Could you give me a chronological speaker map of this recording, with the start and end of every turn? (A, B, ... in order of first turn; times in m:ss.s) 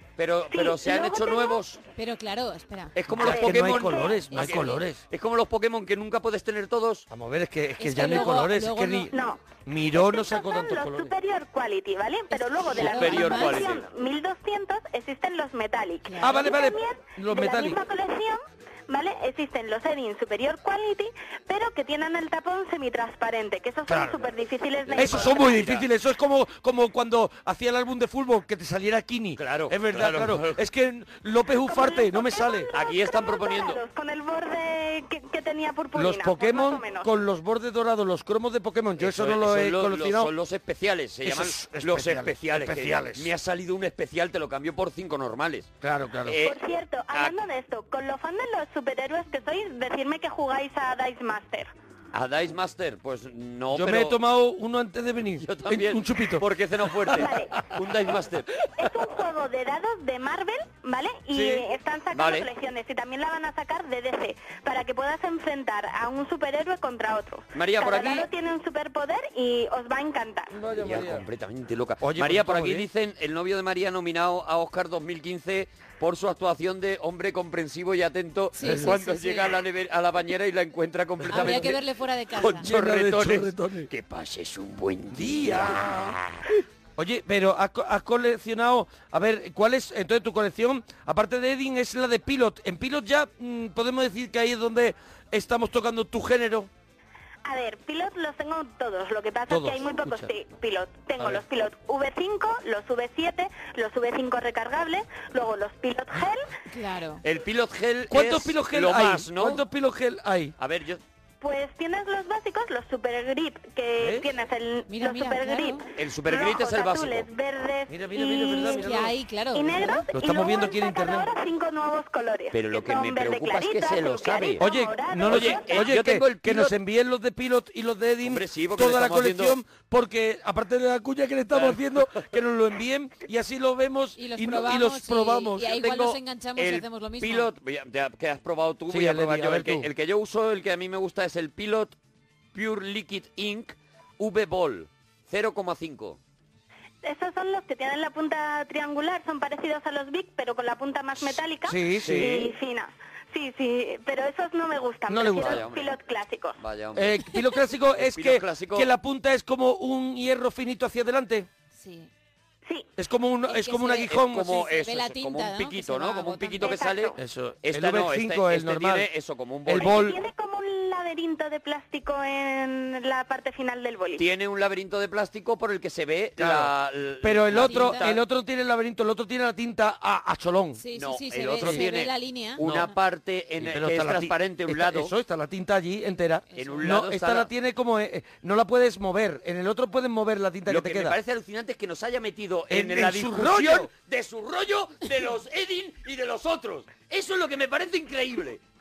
0:00.2-0:01.8 A
0:00.5-0:01.6 B
0:02.0-0:03.0 C
0:03.0-0:07.1 A
0:03.2-0:05.0 D
0:03.2-0:04.2 B
0:04.3-0:04.8 C
0:07.1-0:09.1 D
0:07.8-0:09.2 C
0:09.1-0:09.4 B
0:09.6-0:11.1 D
0:09.9-0:25.6 B
0:12.3-0:13.8 C
0:12.8-0:13.8 A
0:16.1-0:16.5 C
0:16.2-0:17.8 D
0:23.9-0:24.2 D
0:24.9-0:25.9 A
0:25.0-0:32.7 D
0:29.4-0:30.6 A
0:31.6-0:37.1 B
0:32.7-0:33.8 A
0:36.0-0:40.3 D
0:39.0-0:45.7 A
0:41.2-0:43.3 D
0:45.8-0:46.4 D
0:46.2-0:47.4 A
0:46.4-0:51.7 B
0:52.1-0:54.2 A
0:53.7-0:57.3 D
0:55.4-0:58.5 A
0:57.1-0:57.6 B
0:58.8-1:10.6 B
1:01.3-1:01.6 D
1:02.1-1:02.5 A
1:07.5-1:08.3 A
1:10.5-1:11.2 D
1:10.8-1:21.8 A
1:12.0-1:12.9 D
1:18.6-1:19.6 C
1:18.6-1:19.0 D
1:21.3-1:21.7 D
1:21.3-1:22.7 C
1:22.4-1:26.4 A
1:22.6-1:23.9 D
1:25.1-1:26.2 D
1:27.0-1:36.7 D
1:37.4-1:46.5 B
1:39.5-1:40.3 D
1:46.7-1:47.2 C
1:47.2-1:49.6 A
1:48.1-1:50.6 D
1:50.6-1:51.0 A
1:51.4-1:58.9 B
1:54.0-1:54.3 D
1:54.9-1:55.8 C
1:56.0-1:57.3 A
1:57.9-1:59.2 D
1:58.8-2:00.1 C
1:59.5-2:05.9 B
2:00.1-2:01.3 D
2:02.5-2:04.6 A
2:04.6-2:15.8 D
2:05.3-2:06.8 A
2:08.2-2:09.6 A
2:11.5-2:12.0 A
2:14.2-2:17.5 C
2:15.6-2:22.0 A
2:18.9-2:19.9 D
2:22.5-2:26.2 A
2:27.0-2:36.6 B
2:31.6-2:32.3 D
2:32.0-2:32.5 A
2:35.1-2:35.6 D
2:35.3-2:35.9 A
2:36.6-2:37.2 A
2:37.0-2:41.5 D
2:38.0-2:38.9 A
2:41.8-2:42.1 C
2:43.0-2:44.7 D
2:43.5-2:46.9 C
2:43.9-2:50.2 A
2:46.6-2:47.2 B
2:47.2-2:49.1 D
2:49.6-2:50.2 D
2:49.8-2:54.2 B
2:54.2-2:58.2 A
2:56.4-3:00.8 D
2:57.6-2:58.1 C
3:00.8-3:02.9 C
3:00.9-3:05.1 A
3:02.6-3:02.9 D
3:03.6-3:11.2 D
3:06.5-3:06.9 C
3:06.6-3:07.5 A
3:10.7-3:18.6 A
3:12.7-3:13.9 D